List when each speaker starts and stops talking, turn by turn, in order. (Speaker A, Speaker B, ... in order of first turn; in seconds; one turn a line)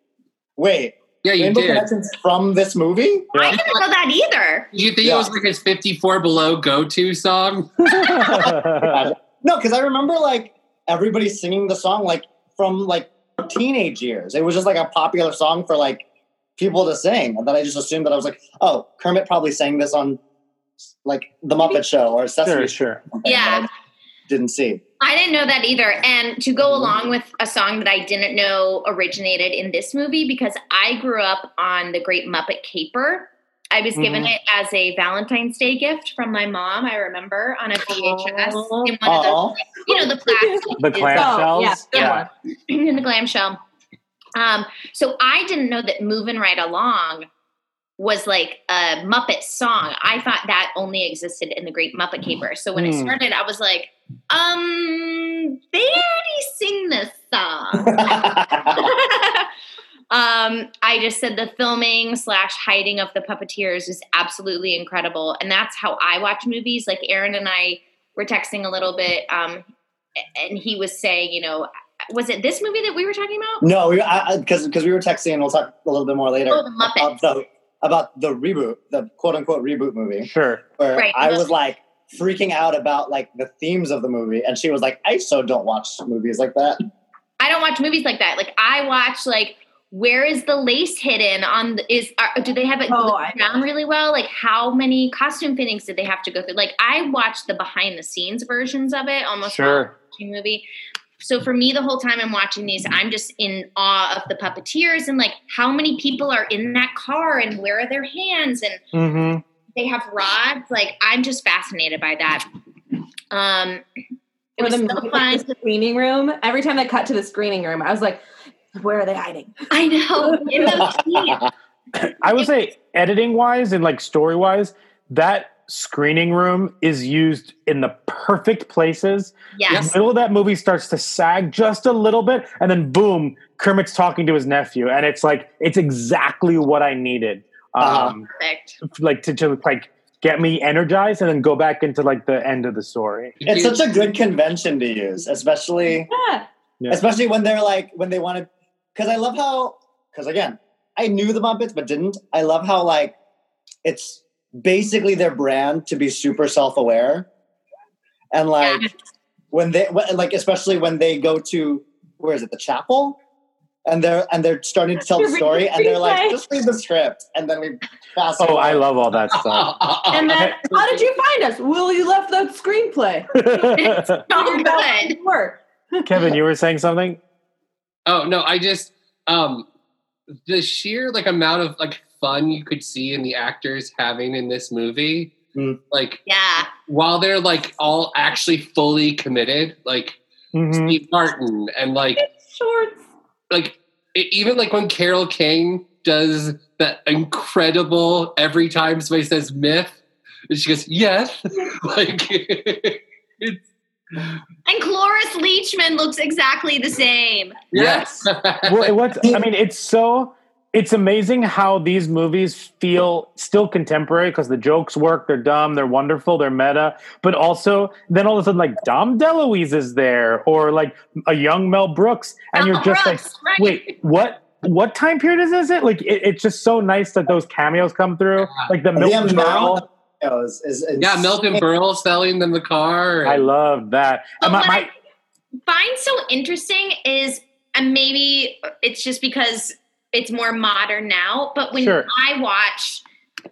Speaker A: 0.6-3.3
Speaker B: 1.2-1.9
Speaker C: 3.3-3.6
Speaker D: 3.4-4.7
Speaker B: 3.5-3.8
Speaker B: 4.7-8.2
Speaker A: 5.0-5.3
Speaker C: 7.8-9.1
Speaker A: 8.4-16.0
Speaker A: 16.6-20.2
Speaker A: 21.0-23.7
Speaker C: 22.4-23.1
Speaker D: 23.2-23.7
Speaker A: 24.3-24.8
Speaker D: 25.0-43.6
Speaker C: 34.0-34.3
Speaker E: 38.1-38.9
Speaker A: 39.0-39.6
Speaker E: 39.9-42.3
Speaker C: 40.8-42.2
Speaker D: 44.3-47.3
Speaker D: 48.0-59.5
Speaker C: 52.8-53.1
Speaker A: 57.9-58.8
Speaker D: 60.1-69.6
Speaker D: 70.3-73.6
Speaker A: 73.6-86.8
Speaker D: 76.5-77.1
Speaker C: 80.2-80.6
Speaker D: 80.9-81.5
Speaker D: 87.4-100.7
Speaker E: 92.9-93.6
Speaker C: 99.4-99.9
Speaker D: 101.2-108.8
Speaker C: 108.9-109.4
Speaker D: 109.7-112.4
Speaker D: 113.3-113.8
Speaker D: 114.6-115.5
Speaker E: 114.6-118.2
Speaker E: 118.7-121.0
Speaker D: 119.7-121.4
Speaker A: 120.9-121.5
Speaker C: 121.9-138.3
Speaker D: 129.5-129.9
Speaker B: 129.7-129.9
Speaker A: 137.8-138.2
Speaker D: 138.3-138.8
Speaker C: 138.9-143.3
Speaker B: 143.4-143.8
Speaker A: 143.4-146.1
Speaker E: 146.1-146.5
Speaker A: 146.9-153.2
Speaker A: 153.8-157.3
Speaker A: 158.3-158.9
Speaker D: 158.6-158.9
Speaker A: 159.5-163.2
Speaker A: 163.8-168.8
Speaker E: 165.0-166.4
Speaker C: 168.4-170.5
Speaker B: 169.3-171.0
Speaker E: 170.1-176.1
Speaker C: 173.3-174.2
Speaker D: 174.3-175.2
Speaker C: 176.1-177.2
Speaker B: 178.1-179.7
Speaker B: 180.4-185.3
Speaker A: 185.5-185.8
Speaker B: 185.9-190.2
Speaker D: 186.2-186.7
Speaker C: 190.5-191.0
Speaker B: 190.7-192.2
Speaker E: 192.2-193.0
Speaker B: 193.5-203.6
Speaker D: 204.7-207.7
Speaker B: 207.7-208.9
Speaker C: 207.7-229.8
Speaker D: 222.5-224.0
Speaker B: 228.4-228.7
Speaker A: 228.9-231.6
Speaker B: 231.0-233.5
Speaker C: 233.2-234.9
Speaker D: 234.4-234.9
Speaker D: 235.7-243.0
Speaker C: 241.7-242.1